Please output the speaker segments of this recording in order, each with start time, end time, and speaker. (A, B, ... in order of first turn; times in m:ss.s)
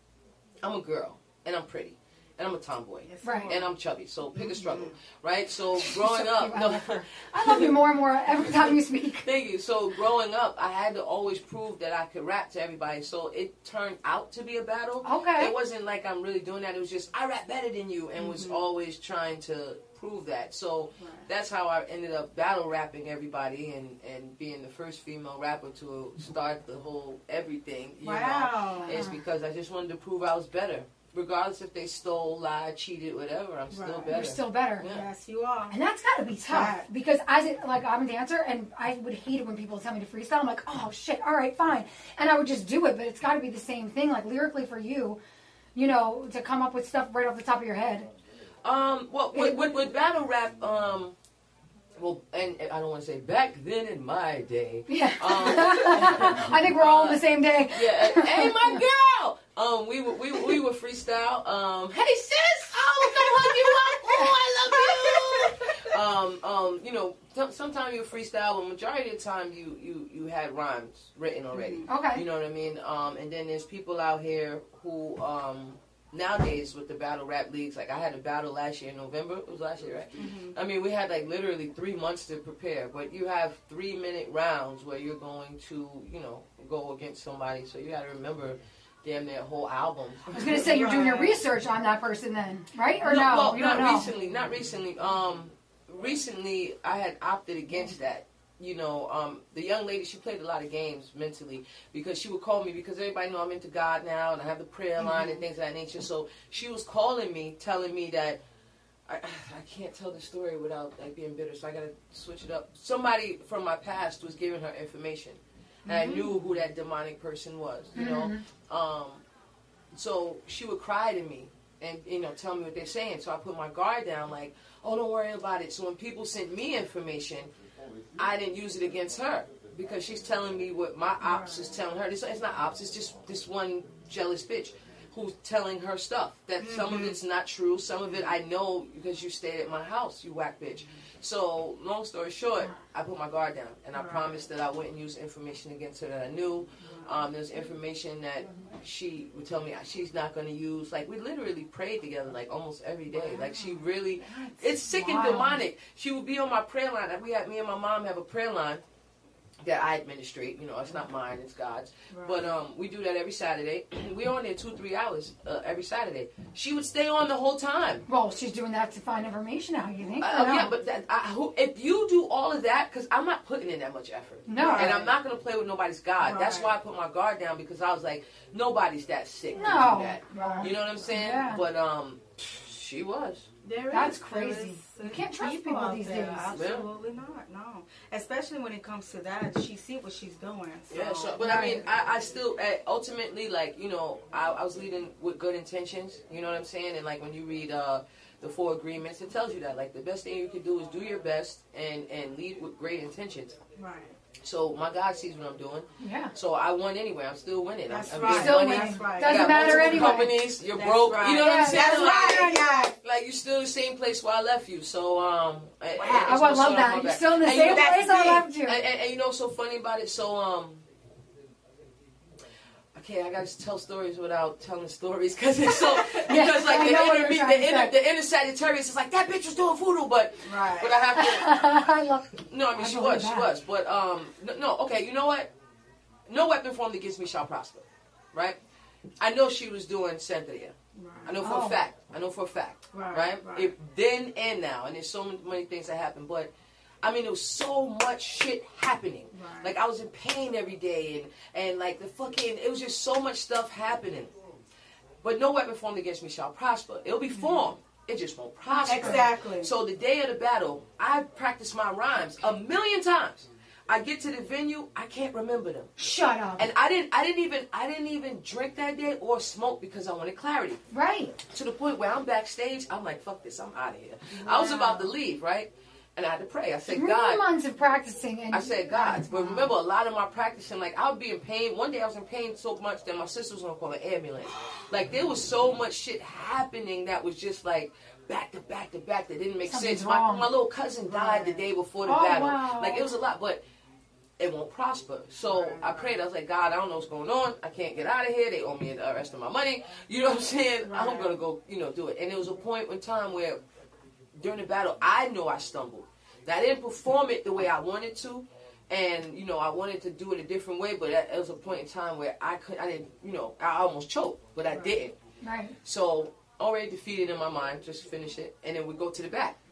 0:00.6-0:35.0 A
0:03.0-0:03.7 B
0:03.2-0:03.5 C
0:04.4-0:04.9 B
0:05.8-0:09.3 C
0:15.0-0:15.5 C
0:18.2-0:18.6 B
0:21.0-0:21.3 B
0:28.0-0:29.0 B
0:28.8-0:29.2 C
0:33.7-0:34.2 B
0:34.1-0:34.9 C
0:34.8-0:35.7 B
0:35.7-0:45.2 C
0:36.5-0:36.9 B
0:45.7-0:48.1 C
0:48.6-0:51.1 A
0:49.3-0:49.8 C
0:52.0-1:30.6 A
0:54.9-0:58.8 C
1:03.1-1:03.9 B
1:04.8-1:05.9 B
1:11.5-1:11.9 B
1:11.9-1:12.2 C
1:20.2-1:20.5 B
1:30.3-1:34.1 C
1:30.4-1:31.4 B
1:33.0-1:48.4 A
1:45.0-1:45.4 B
1:49.1-1:59.2 A
1:55.9-1:56.3 B
1:57.9-1:58.4 C
1:59.9-2:07.5 A
2:08.2-2:38.8 A
2:11.2-2:11.7 B
2:16.6-2:17.2 B
2:23.9-2:24.3 B
2:26.8-2:27.2 B
2:33.1-2:33.8 B
2:34.2-2:35.6 C
2:39.6-2:48.1 A
2:42.1-2:42.6 B
2:48.1-2:50.7 C
2:50.2-3:03.5 A
2:54.5-2:55.0 C
2:54.6-2:55.1 B
2:56.2-2:56.7 B
2:59.5-3:01.6 C
3:00.3-3:00.7 B
3:03.6-3:11.5 B
3:03.9-3:06.5 C
3:06.5-3:06.9 A
3:10.9-3:23.6 A
3:11.4-3:11.8 C
3:23.8-3:24.1 B
3:24.4-3:40.8 A
3:26.0-3:26.3 C
3:27.9-3:32.9 B
3:28.2-3:30.3 C
3:31.4-3:32.9 C
3:36.0-3:38.4 B
3:36.2-3:38.8 C
3:42.9-3:55.5 A
3:45.8-3:46.1 B
3:46.2-3:47.9 C
3:50.4-3:51.0 B
3:51.2-3:53.5 C
3:56.3-3:58.6 A
3:59.2-4:06.5 A
4:01.0-4:01.3 B
4:01.4-4:01.8 C
4:02.9-4:03.7 B
4:07.0-4:14.3 A
4:09.3-4:09.7 B
4:15.2-4:25.9 A
4:17.3-4:17.6 B
4:18.7-4:19.3 C
4:18.9-4:19.7 B
4:26.0-4:26.7 C
4:26.6-4:30.8 A
4:30.9-4:31.4 C
4:31.5-4:37.4 A
4:34.3-4:35.1 B
4:36.9-4:39.7 C
4:38.5-4:53.6 A
4:49.6-4:50.5 C
4:51.1-4:51.6 B
4:52.0-4:53.1 C
4:54.4-5:03.6 A
4:55.5-4:56.1 B
5:00.8-5:01.3 B
5:04.3-5:15.1 A
5:14.7-5:15.0 B
5:15.4-5:15.7 C
5:15.8-5:19.6 A